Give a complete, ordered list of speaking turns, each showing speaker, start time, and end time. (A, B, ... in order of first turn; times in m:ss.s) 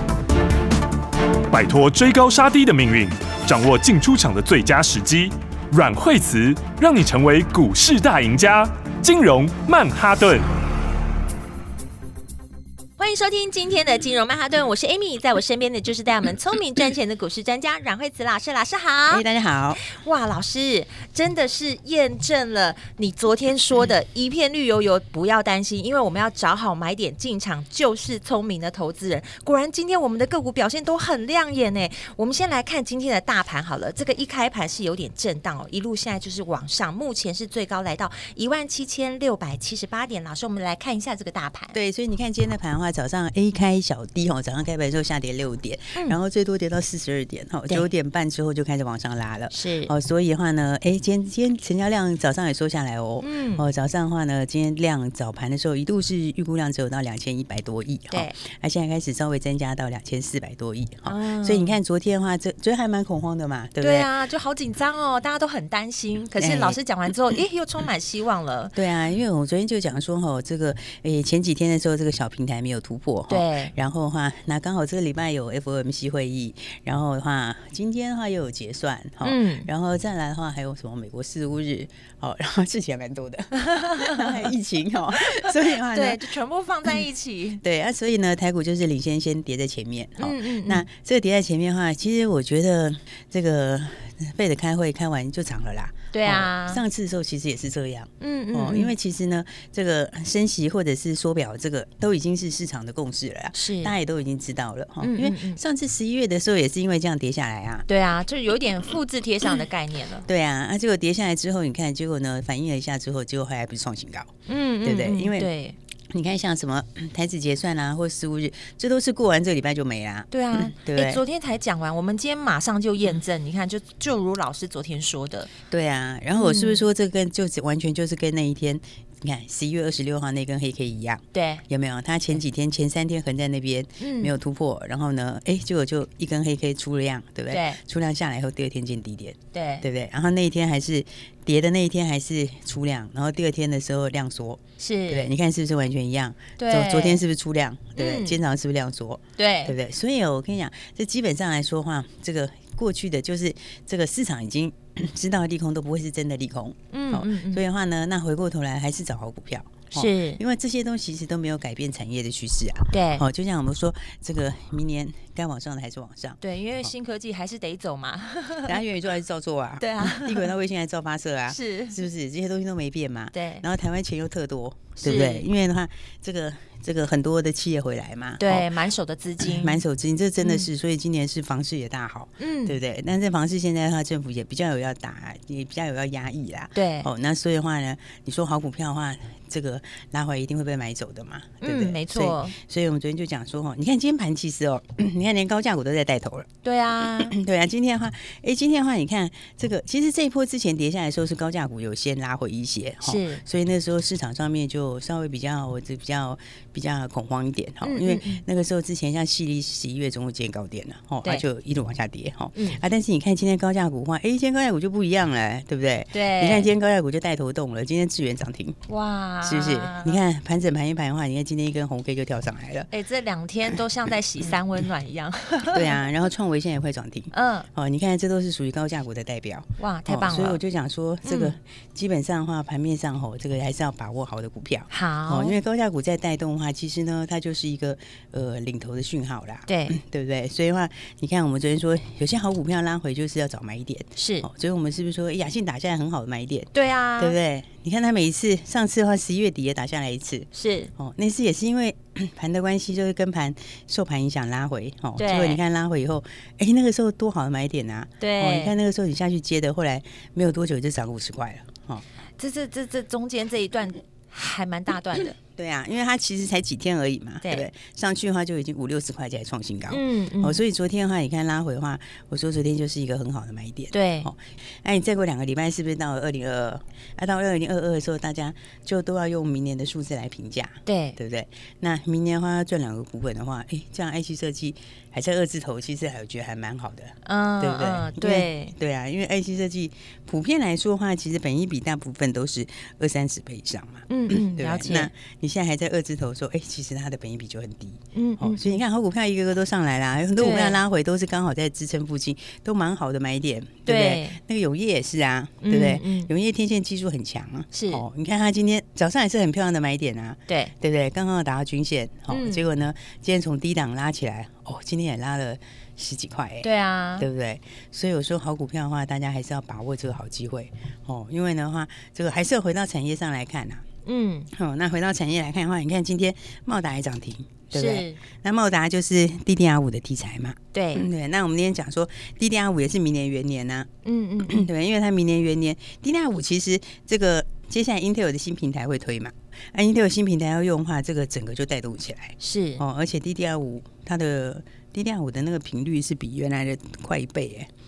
0:01.5-0:10.5 A
0:13.0-0:19.2 B
0:19.1-0:19.8 C
0:19.8-0:41.8 B
0:41.7-1:04.1 C
0:49.5-0:49.9 B
0:53.2-0:53.6 B
0:58.1-0:58.4 B
1:01.0-1:01.8 B
1:03.8-1:08.7 B
1:06.4-1:06.8 C
1:08.7-1:26.2 C
1:13.3-1:13.7 B
1:19.2-1:19.7 B
1:23.7-1:24.2 B
1:25.4-1:27.6 B
1:27.6-1:47.8 C
1:30.2-1:30.8 B
1:36.1-1:36.8 B
1:38.2-1:38.9 B
1:43.5-1:43.9 B
1:45.0-1:45.6 B
1:47.9-1:50.3 B
1:50.2-1:55.5 C
1:54.5-1:55.8 B
1:56.1-2:01.2 C
2:00.3-2:05.5 B
2:05.7-2:46.9 C
2:06.3-2:06.8 B
2:11.3-2:11.6 B
2:14.0-2:14.3 B
2:17.5-2:17.8 B
2:19.5-2:19.8 B
2:24.8-2:25.3 B
2:26.6-2:27.2 B
2:28.0-2:28.4 B
2:29.4-2:29.8 B
2:36.9-2:37.6 B
2:39.9-2:40.4 B
2:42.9-2:43.3 B
2:46.4-2:48.7 B
2:48.6-2:58.7 C
2:49.8-2:50.5 B
2:51.5-2:52.0 B
2:53.3-2:53.6 B
2:55.0-2:55.5 B
2:58.4-2:59.8 B
2:59.4-3:16.5 C
3:00.4-3:00.7 B
3:02.4-3:02.8 B
3:06.7-3:07.1 B
3:11.6-3:12.5 B
3:16.6-3:17.3 B
3:17.0-3:38.8 C
3:23.0-3:23.4 B
3:27.8-3:28.4 B
3:32.5-3:32.8 B
3:36.1-3:36.7 B
3:38.9-3:40.2 B
3:39.4-3:42.9 C
3:42.9-3:46.0 B
3:45.7-4:22.0 C
3:47.3-3:47.7 B
3:49.8-3:50.6 B
3:51.2-3:51.5 B
3:54.9-3:55.6 B
3:59.7-4:00.0 B
4:04.2-4:04.5 B
4:06.7-4:07.4 B
4:10.5-4:10.9 B
4:15.2-4:15.6 B
4:18.2-4:18.7 B
4:22.4-4:25.4 B
4:25.6-5:23.8 C
4:29.9-4:30.6 B
4:33.9-4:34.3 B
4:40.8-4:41.2 B
4:47.2-4:48.7 B
4:54.1-4:55.1 B
4:58.1-4:58.8 B
5:00.4-5:00.8 B
5:03.8-5:04.4 B
5:05.6-5:06.3 B
5:07.7-5:08.0 B
5:12.3-5:12.6 B
5:16.6-5:17.3 B
5:24.0-5:24.5 B
5:24.5-5:33.9 C
5:27.7-5:28.2 B
5:30.7-5:31.0 B
5:34.0-5:34.6 B
5:34.5-5:47.7 C
5:42.4-5:42.8 B